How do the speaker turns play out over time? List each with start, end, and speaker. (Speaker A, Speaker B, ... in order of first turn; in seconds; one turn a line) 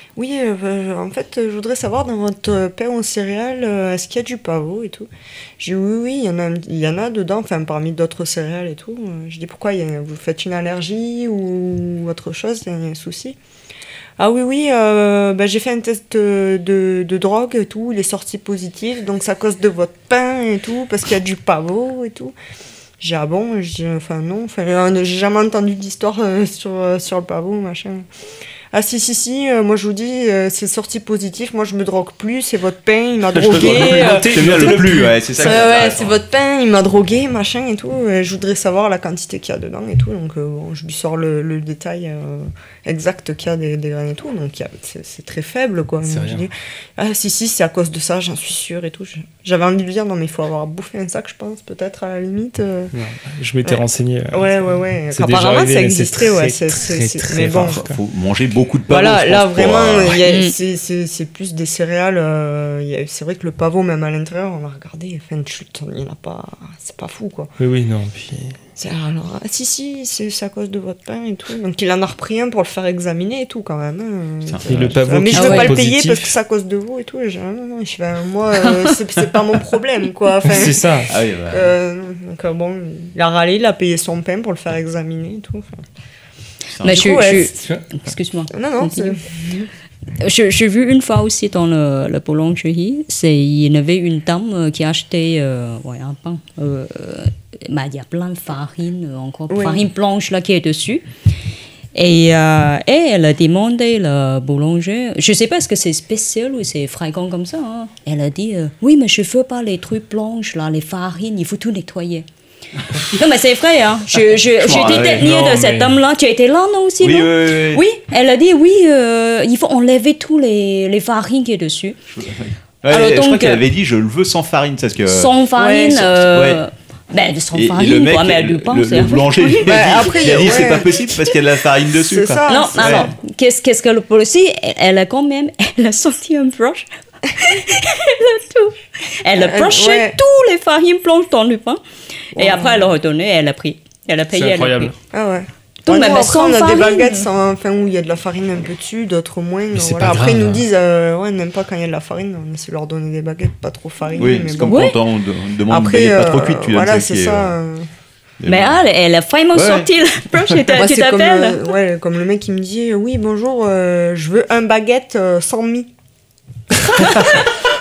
Speaker A: 0.2-5.1
Speaker A: 5.6-13.4
Speaker A: 14.2-22.3
Speaker A: 23.0-28.1
Speaker A: 28.7-52.9
Speaker B: 33.4-36.2
Speaker C: 33.4-35.5
Speaker C: 46.0-46.5
Speaker C: 52.9-58.0
Speaker A: 53.6-57.8
Speaker B: 57.7-60.2
Speaker A: 58.9-67.5
Speaker D: 60.3-60.5
Speaker C: 67.6-68.6
Speaker A: 68.8-85.8
Speaker B: 74.5-74.9
Speaker C: 74.7-76.3
Speaker D: 75.3-75.8
Speaker C: 80.4-81.1
Speaker B: 81.1-81.7
Speaker B: 86.8-87.3
Speaker D: 86.8-89.6
Speaker A: 86.8-87.6
Speaker A: 88.5-89.2
Speaker D: 90.2-101.0
Speaker A: 99.5-99.8
Speaker D: 102.0-112.3
Speaker D: 113.0-122.0
Speaker B: 114.4-115.3
Speaker C: 114.7-116.0
Speaker B: 117.0-117.8
Speaker B: 122.1-126.6
Speaker D: 122.9-123.7
Speaker D: 125.1-130.7
Speaker A: 125.6-126.0
Speaker B: 127.5-133.1
Speaker A: 129.7-131.0
Speaker A: 132.1-133.1
Speaker D: 132.5-141.8
Speaker A: 139.4-140.2
Speaker D: 142.3-144.9
Speaker A: 142.4-142.9
Speaker C: 144.3-144.9
Speaker A: 145.1-154.9
Speaker D: 145.8-147.3
Speaker C: 149.7-150.7
Speaker B: 154.2-157.6
Speaker D: 154.2-155.0
Speaker A: 155.7-157.9
Speaker B: 158.4-158.8
Speaker D: 158.5-161.7
Speaker B: 159.5-159.9
Speaker A: 160.7-165.9